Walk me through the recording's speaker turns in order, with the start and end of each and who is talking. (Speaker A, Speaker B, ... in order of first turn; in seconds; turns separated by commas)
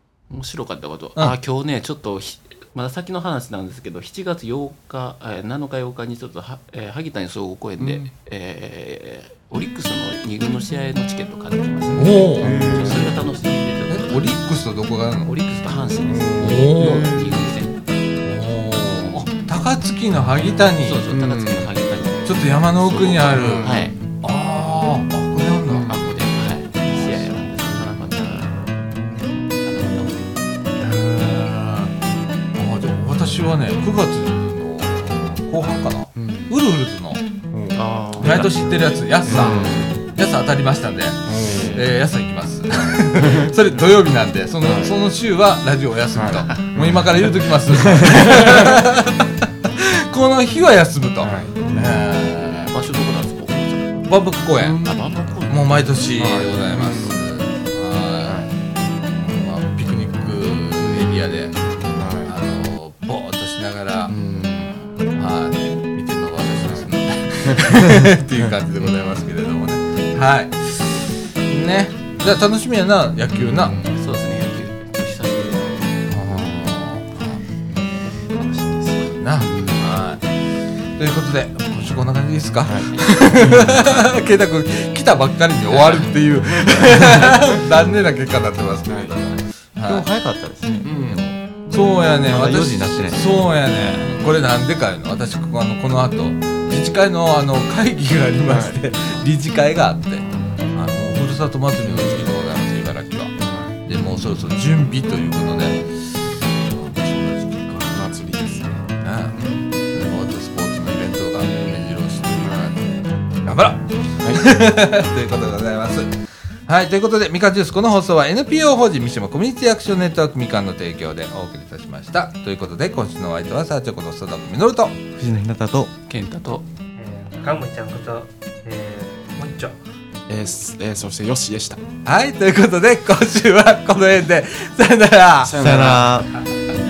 Speaker A: 0.3-14.4, Speaker B: 7.8-8.1, Speaker C: 11.9-12.5, Speaker B: 12.4-13.2, Speaker D: 12.4-13.1, Speaker C: 13.9-15.3, Speaker A: 15.2-17.8, Speaker B: 16.0-17.3, Speaker C: 16.4-17.2, Speaker C: 18.2-21.0, Speaker A: 20.8-22.4, Speaker B: 21.1-21.7, Speaker C: 22.2-25.9, Speaker B: 22.8-24.1, Speaker A: 23.6-23.9, Speaker B: 25.7-26.0, Speaker A: 25.9-30.2, Speaker C: 26.9-27.6, Speaker C: 29.8-31.9, Speaker C: 32.5-37.2, Speaker B: 36.2-36.5, Speaker B: 37.5-38.5, Speaker A: 37.8-38.4, Speaker C: 38.2-52.7, Speaker B: 39.3-39.9, Speaker B: 41.3-41.9, Speaker B: 42.9-43.5, Speaker B: 44.6-44.9, Speaker B: 46.2-48.8, Speaker B: 51.2-51.6, Speaker D: 51.6-52.0, Speaker A: 52.4-54.2, Speaker C: 54.0-54.8, Speaker B: 54.6-55.0, Speaker A: 54.9-56.2, Speaker C: 55.5-58.5, Speaker B: 56.2-57.2, Speaker B: 58.2-58.5, Speaker C: 59.1-61.6, Speaker B: 60.8-62.3, Speaker C: 62.2-64.2, Speaker B: 64.1-64.8, Speaker C: 65.1-73.8, Speaker B: 66.6-66.9, Speaker B: 67.4-68.0, Speaker B: 73.4-74.0, Speaker A: 73.8-76.0, Speaker C: 76.1-77.4, Speaker A: 78.0-79.9, Speaker C: 79.2-80.2, Speaker C: 81.0-90.1, Speaker B: 82.6-82.9, Speaker A: 85.8-86.0, Speaker B: 87.0-87.5, Speaker B: 88.9-89.2, Speaker D: 89.9-91.4, Speaker B: 90.8-91.2, Speaker C: 91.7-108.2, Speaker D: 92.0-93.3, Speaker B: 98.5-98.8, Speaker B: 101.9-102.3, Speaker B: 103.4-103.8, Speaker B: 107.9-108.8, Speaker C: 108.9-125.0, Speaker B: 112.4-112.7, Speaker D: 125.2-125.9, Speaker A: 126.1-126.7, Speaker E: 127.0-129.8, Speaker B: 130.3-131.8, Speaker C: 132.1-135.6, Speaker B: 135.4-136.2, Speaker D: 135.6-136.3